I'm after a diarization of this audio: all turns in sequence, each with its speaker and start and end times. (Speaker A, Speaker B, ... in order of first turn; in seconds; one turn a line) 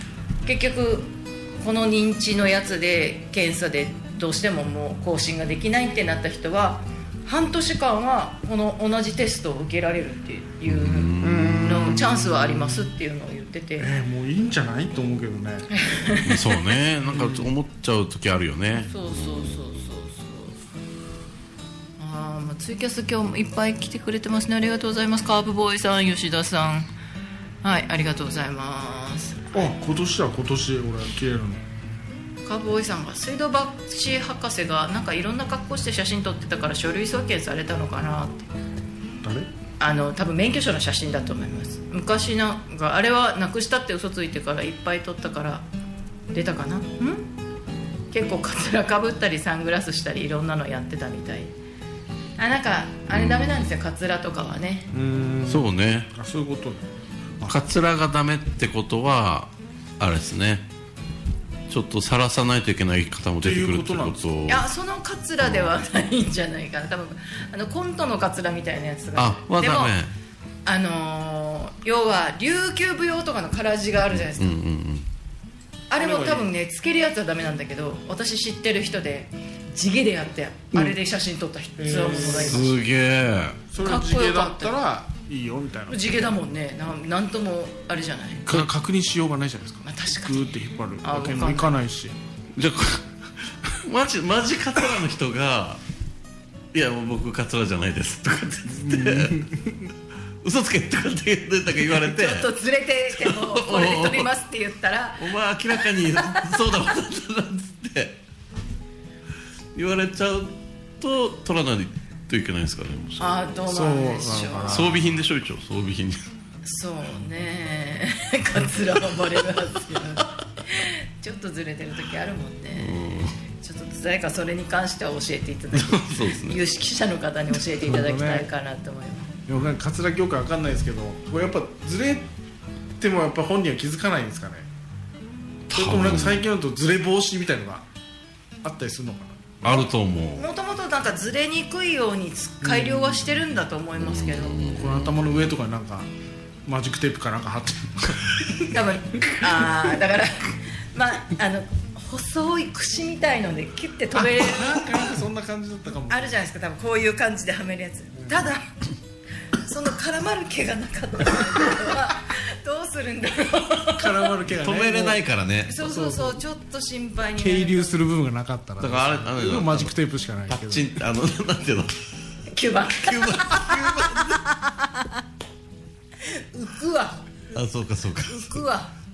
Speaker A: 0.4-13.9
Speaker B: 10.7-12.0
Speaker C: 11.2-12.8
Speaker C: 13.8-15.7
Speaker A: 15.7-16.6
Speaker B: 16.2-19.5
Speaker C: 17.1-17.5
Speaker A: 18.9-20.6
Speaker A: 22.0-26.9
Speaker A: 27.6-29.6
Speaker C: 29.5-31.6
Speaker A: 32.4-38.5
Speaker C: 39.2-39.5
Speaker A: 39.8-45.6
Speaker A: 46.3-47.3
Speaker A: 48.1-51.5
Speaker A: 52.4-54.9
Speaker B: 53.1-53.7
Speaker C: 54.9-57.6
Speaker B: 55.5-56.1
Speaker B: 57.4-60.6
Speaker B: 61.7-64.7
Speaker C: 63.4-64.3
Speaker A: 64.5-69.9
Speaker B: 65.4-65.8
Speaker B: 69.2-70.1
Speaker A: 70.6-74.6
Speaker B: 74.1-75.1
Speaker A: 75.9-82.8
Speaker C: 76.0-76.5
Speaker C: 81.8-82.7
Speaker B: 82.2-83.6
Speaker C: 83.7-86.1
Speaker A: 83.8-84.8
Speaker A: 85.9-88.6
Speaker C: 88.4-92.2
Speaker A: 89.8-91.7
Speaker B: 92.5-93.0
Speaker B: 93.7-95.8
Speaker B: 96.7-99.5
Speaker C: 98.7-99.9
Speaker B: 100.4-102.5
Speaker A: 101.9-105.3
Speaker B: 103.1-104.3
Speaker B: 105.2-108.2
Speaker B: 109.7-113.3
Speaker A: 113.2-114.9
Speaker C: 113.7-115.1
Speaker B: 114.7-116.2
Speaker A: 116.6-129.3
Speaker B: 122.8-123.3
Speaker B: 125.7-126.6
Speaker C: 127.8-128.5
Speaker C: 129.5-132.3
Speaker C: 133.0-134.7
Speaker B: 135.7-136.4
Speaker C: 135.7-137.8
Speaker C: 138.6-139.8
Speaker B: 139.6-140.5
Speaker A: 140.3-144.6
Speaker C: 142.6-143.2
Speaker B: 144.0-145.1
Speaker C: 144.7-146.1
Speaker C: 146.6-148.7
Speaker A: 148.6-155.0
Speaker C: 154.1-156.4
Speaker A: 156.1-158.7
Speaker C: 158.2-158.4
Speaker A: 159.5-164.3
Speaker C: 163.9-165.2
Speaker B: 164.5-165.7
Speaker A: 165.7-168.0
Speaker C: 165.8-166.4
Speaker C: 167.4-170.9
Speaker B: 168.8-169.9
Speaker B: 170.5-171.9
Speaker A: 172.5-175.1
Speaker B: 172.9-174.4
Speaker A: 176.2-177.2
Speaker B: 177.5-178.6
Speaker A: 178.2-178.9